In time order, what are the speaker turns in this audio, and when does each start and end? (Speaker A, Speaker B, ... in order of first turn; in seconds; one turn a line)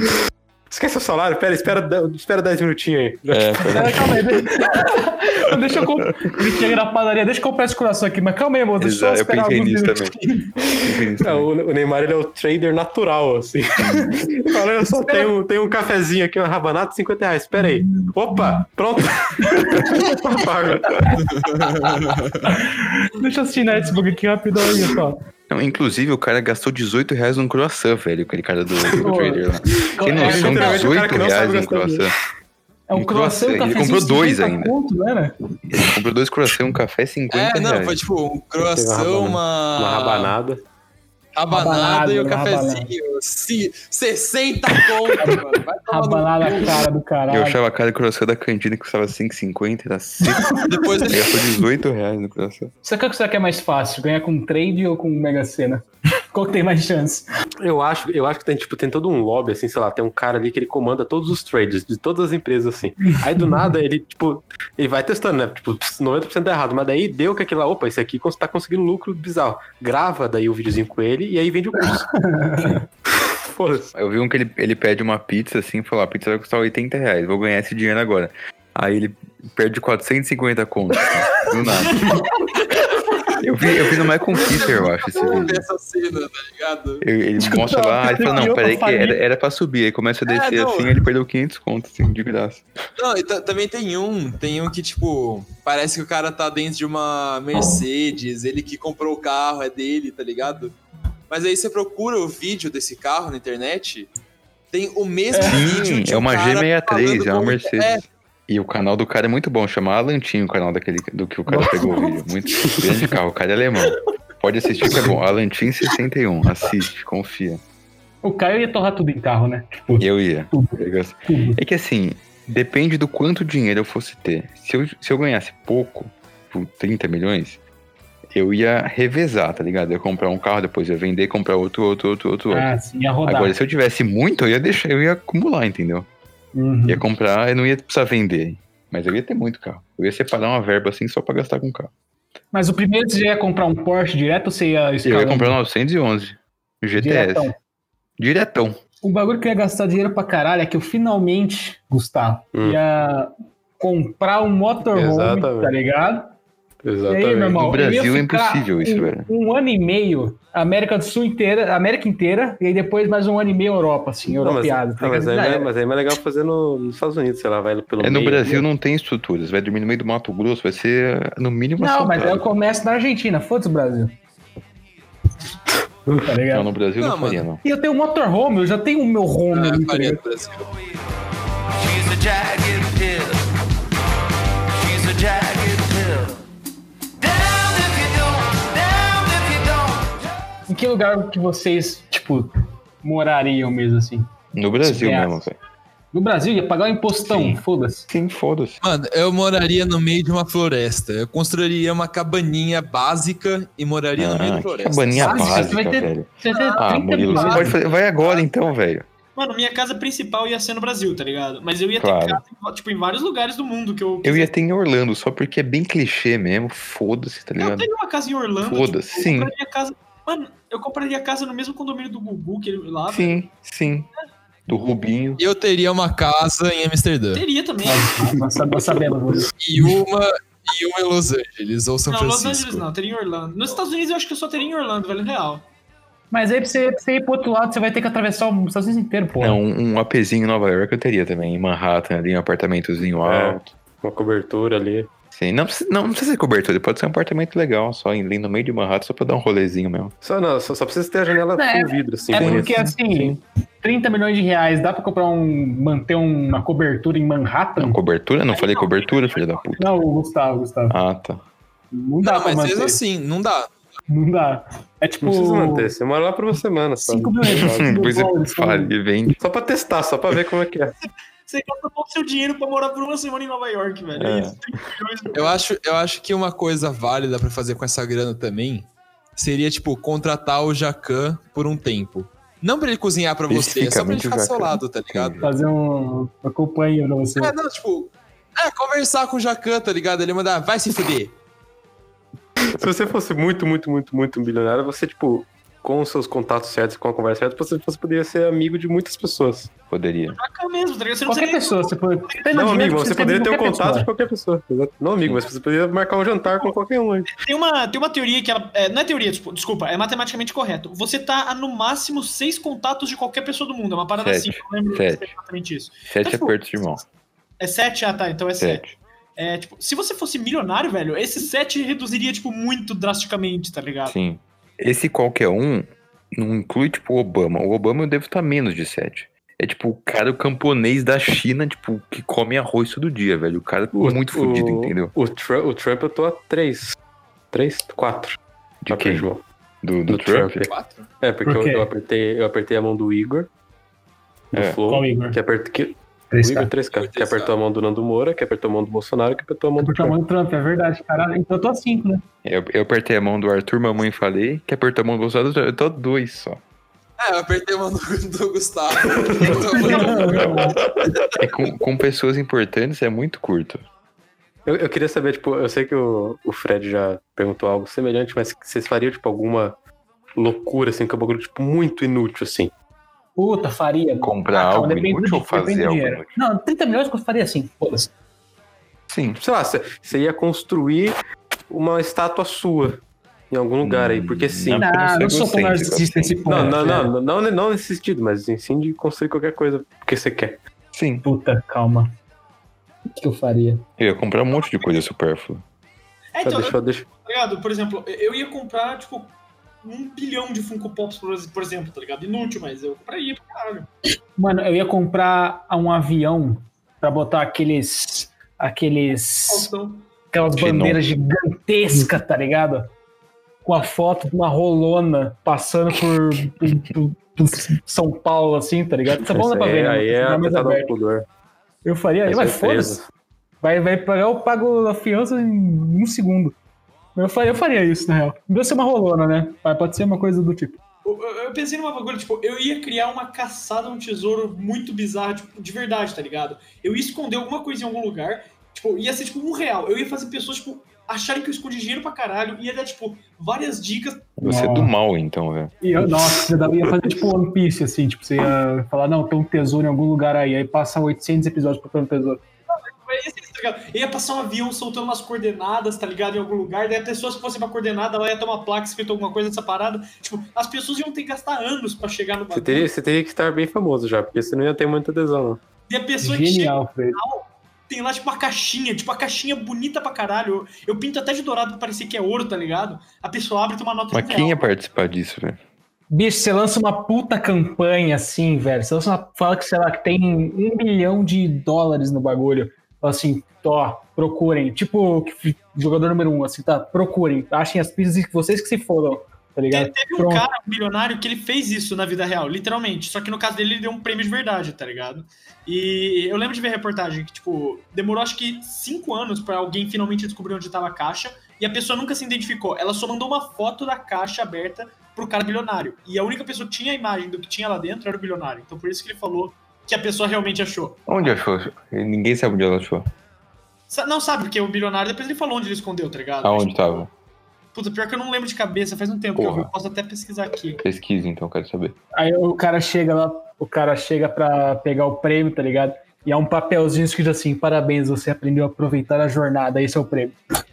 Speaker A: 0.7-4.0
Speaker B: 3.3-4.5
Speaker C: 3.7-10.5
Speaker B: 5.5-5.8
Speaker B: 8.8-10.2
Speaker A: 10.7-21.1
Speaker B: 10.8-11.5
Speaker B: 13.8-14.2
Speaker C: 15.0-15.3
Speaker C: 17.6-18.6
Speaker C: 19.4-20.1
Speaker D: 21.2-22.5
Speaker C: 22.4-25.2
Speaker B: 25.5-32.1
Speaker C: 29.0-30.8
Speaker A: 30.1-32.1
Speaker C: 32.9-35.4
Speaker B: 32.9-34.7
Speaker B: 35.6-38.0
Speaker D: 37.3-40.4
Speaker A: 38.7-40.6
Speaker D: 41.3-46.9
Speaker C: 41.5-42.9
Speaker C: 45.2-47.6
Speaker B: 47.3-52.7
Speaker D: 50.6-51.3
Speaker C: 52.8-57.2
Speaker A: 57.6-72.7
Speaker C: 71.9-72.8
Speaker A: 73.3-73.9
Speaker B: 73.9-82.2
Speaker B: 83.4-85.6
Speaker D: 84.4-87.0
Speaker B: 87.0-92.6
Speaker C: 87.4-89.2
Speaker D: 90.3-91.0
Speaker D: 93.0-100.8
Speaker D: 101.3-104.1
Speaker D: 104.7-108.0
Speaker B: 105.4-117.6
Speaker C: 111.5-112.3
Speaker A: 112.7-113.1
Speaker C: 118.2-121.6
Speaker B: 120.0-127.6
Speaker B: 128.3-132.7
Speaker C: 132.5-133.5
Speaker B: 133.2-136.1
Speaker C: 136.5-137.0
Speaker B: 136.9-141.9
Speaker C: 142.5-145.6
Speaker B: 145.0-147.5
Speaker C: 147.0-147.6
Speaker B: 148.2-148.8
Speaker C: 149.0-156.3
Speaker A: 154.9-155.8
Speaker A: 156.8-157.7
Speaker C: 157.1-165.7
Speaker B: 157.5-159.3
Speaker A: 164.3-168.7
Speaker B: 168.0-172.5
Speaker C: 171.8-174.2
Speaker C: 176.1-176.7
Speaker B: 176.5-177.6
Speaker D: 177.0-177.5
Speaker C: 177.6-180.2
Speaker D: 179.5-180.7
Speaker E: 181.8-183.4
Speaker E: 184.7-186.4
Speaker E: 187.2-190.2
Speaker C: 190.7-195.5
Speaker B: 194.5-195.5
Speaker C: 196.1-198.1
Speaker B: 197.2-198.8
Speaker D: 198.8-205.7
Speaker B: 204.2-209.1
Speaker C: 205.2-207.7
Speaker D: 206.5-206.8
Speaker F: 207.3-208.5
Speaker D: 207.4-207.7
Speaker F: 209.3-214.5
Speaker B: 212.0-212.4
Speaker B: 214.2-217.9
Speaker F: 217.6-223.4
Speaker B: 218.6-219.5
Speaker B: 223.1-224.1
Speaker B: 224.7-225.4
Speaker D: 225.4-227.4
Speaker F: 227.3-228.3
Speaker C: 227.8-229.9
Speaker D: 229.6-232.8
Speaker F: 232.1-235.7
Speaker C: 236.3-239.6
Speaker B: 239.4-243.7
Speaker A: 243.2-245.1
Speaker B: 245.3-250.1
Speaker A: 250.2-253.3
Speaker C: 251.6-258.0
Speaker B: 252.3-253.0
Speaker B: 257.8-259.9
Speaker F: 258.5-259.9
Speaker C: 259.8-261.0
Speaker B: 260.9-261.4
Speaker C: 261.9-263.0
Speaker D: 262.2-263.7
Speaker C: 264.1-265.9
Speaker A: 265.2-268.0
Speaker C: 267.0-268.9
Speaker B: 267.6-269.4
Speaker A: 269.4-270.9
Speaker F: 271.0-275.5
Speaker B: 274.1-274.6
Speaker D: 275.3-285.4
Speaker B: 283.5-285.5
Speaker C: 285.4-287.5
Speaker D: 287.4-291.3
Speaker A: 292.7-299.7
Speaker B: 299.9-300.4
Speaker F: 300.3-302.9
Speaker C: 301.2-304.1
Speaker A: 302.5-307.3
Speaker B: 305.2-305.5
Speaker F: 307.3-316.7
Speaker B: 314.2-315.3
Speaker B: 316.1-317.0
Speaker F: 317.6-318.8
Speaker B: 318.6-318.9
Speaker F: 319.4-324.1
Speaker B: 324.1-335.1
Speaker A: 333.9-336.9
Speaker A: 337.5-338.4
Speaker B: 338.8-339.3
Speaker A: 338.9-339.4
Speaker B: 339.8-340.7
Speaker A: 340.1-340.7
Speaker D: 340.6-341.1
Speaker A: 341.2-343.5
Speaker C: 341.4-341.9
Speaker A: 344.5-350.1
Speaker B: 344.5-344.8
Speaker C: 344.9-345.4
Speaker C: 346.3-346.7
Speaker D: 346.9-347.6
Speaker C: 349.8-352.2
Speaker B: 352.4-356.6
Speaker D: 357.2-360.6
Speaker A: 359.0-360.0
Speaker F: 359.7-360.6
Speaker C: 359.7-360.8
Speaker B: 361.3-363.8
Speaker A: 364.6-369.8
Speaker A: 370.3-372.7
Speaker C: 373.4-378.1
Speaker B: 374.2-376.3
Speaker B: 379.1-379.4
Speaker A: 379.4-381.2
Speaker A: 381.7-384.9
Speaker B: 383.8-386.7
Speaker C: 384.8-387.1
Speaker A: 386.4-390.6
Speaker B: 390.9-391.2
Speaker C: 391.2-392.1
Speaker C: 393.1-393.8
Speaker B: 394.0-395.6
Speaker F: 396.3-403.9
Speaker A: 396.4-397.1
Speaker C: 404.4-409.7
Speaker F: 409.5-410.1
Speaker C: 410.3-412.9
Speaker B: 410.6-411.0
Speaker C: 413.6-420.9
Speaker A: 419.2-421.2
Speaker C: 421.8-423.0
Speaker A: 422.3-423.1
Speaker C: 423.6-426.5
Speaker C: 427.1-430.8
Speaker F: 431.0-444.4
Speaker B: 444.4-445.7
Speaker C: 444.4-444.9
Speaker C: 445.8-452.4
Speaker F: 452.7-462.9
Speaker A: 462.5-465.6
Speaker F: 465.9-474.7
Speaker C: 466.2-467.2
Speaker B: 474.1-475.6
Speaker C: 476.1-490.5
Speaker F: 489.7-511.0
Speaker B: 511.1-513.1
Speaker F: 513.9-516.8
Speaker B: 516.4-517.1
Speaker F: 517.7-520.8
Speaker B: 519.4-519.7
Speaker B: 520.8-521.9
Speaker C: 522.1-530.4